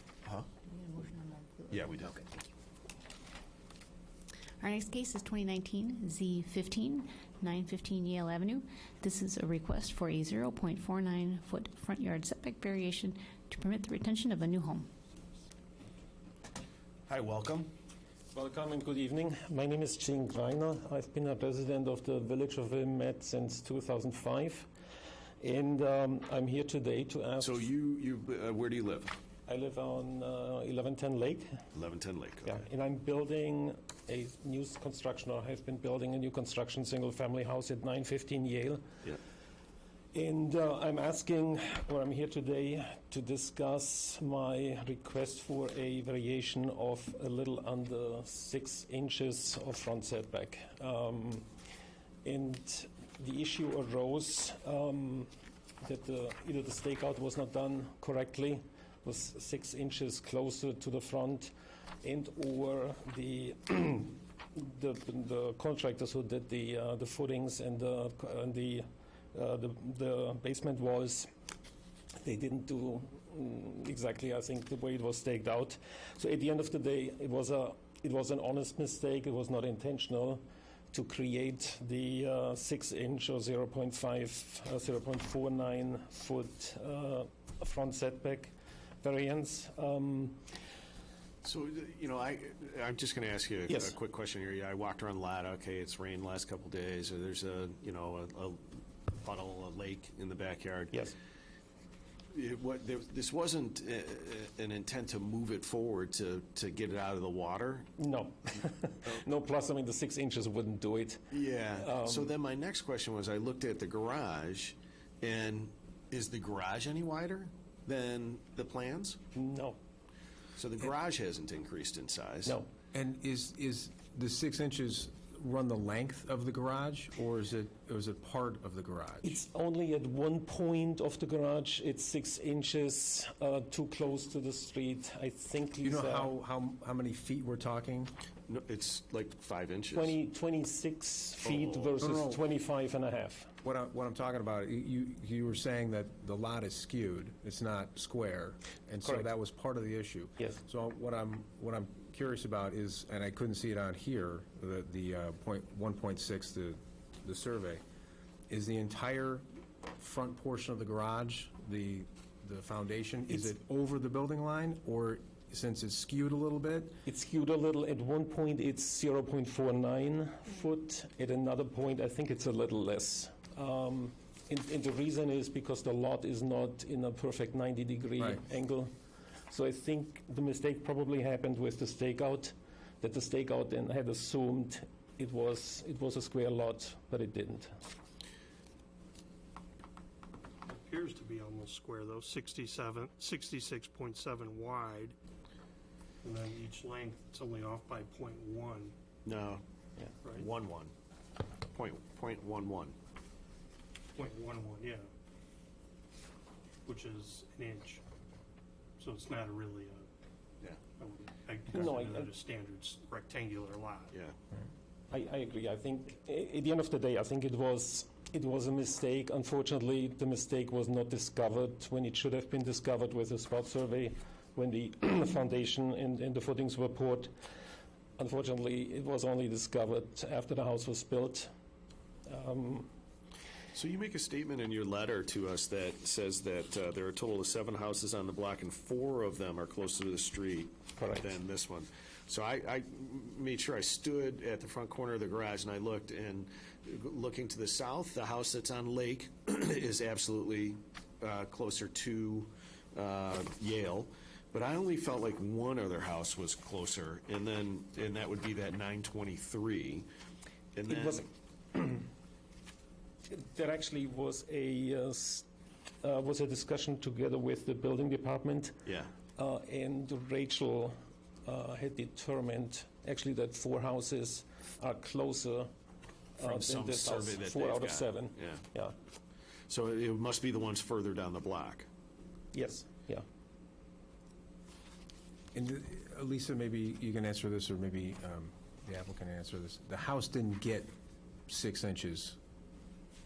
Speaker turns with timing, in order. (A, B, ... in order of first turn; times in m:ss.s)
0:00.2-0:00.5 A
0:00.7-0:02.4 B
0:01.7-0:02.5 A
0:04.6-0:14.9 B
0:17.1-0:17.7 A
0:18.3-0:24.7 C
0:25.4-0:27.6 C
0:27.4-0:29.2 A
0:29.5-0:31.6 C
0:31.7-0:32.6 A
0:32.4-0:38.8 C
0:40.1-0:51.5 C
0:52.2-1:11.3 C
1:12.1-1:30.4 C
1:31.4-1:41.1 A
1:33.7-1:33.9 C
1:42.3-1:47.9 A
1:48.0-1:52.3 C
1:51.3-1:59.2 A
1:59.3-1:59.8 C
2:00.6-2:02.6 A
2:02.4-2:02.7 C
2:02.9-2:09.4 D
2:09.2-2:16.3 C
2:15.8-2:18.1 D
2:18.5-2:20.2 A
2:19.9-2:23.5 C
2:21.4-2:22.0 A
2:22.0-2:22.4 D
2:23.6-2:37.8 D
2:38.5-2:39.4 D
2:40.0-2:47.0 D
2:47.0-2:58.9 C
2:59.5-3:07.7 C
3:10.7-3:15.1 E
3:16.2-3:18.9 E
3:19.2-3:19.6 A
3:20.3-3:20.9 A
3:21.7-3:23.0 A
3:24.2-3:25.1 E
3:26.8-3:28.0 E
3:29.0-3:30.1 E
3:31.0-3:34.1 E
3:31.7-3:32.3 C
3:35.1-3:47.3 C
3:48.2-3:51.5 C
3:52.3-3:52.9 C
3:53.7-4:20.0 A
4:01.0-4:01.3 C
4:20.7-4:21.3 A
4:20.9-4:22.0 C
4:23.3-4:25.4 C
4:26.0-4:28.8 C
4:28.8-4:29.1 A
4:29.4-4:35.7 C
4:36.4-4:39.0 C
4:36.4-4:38.6 A
4:39.7-4:41.9 A
4:42.5-4:43.2 C
4:45.5-4:50.9 D
4:51.5-4:52.4 D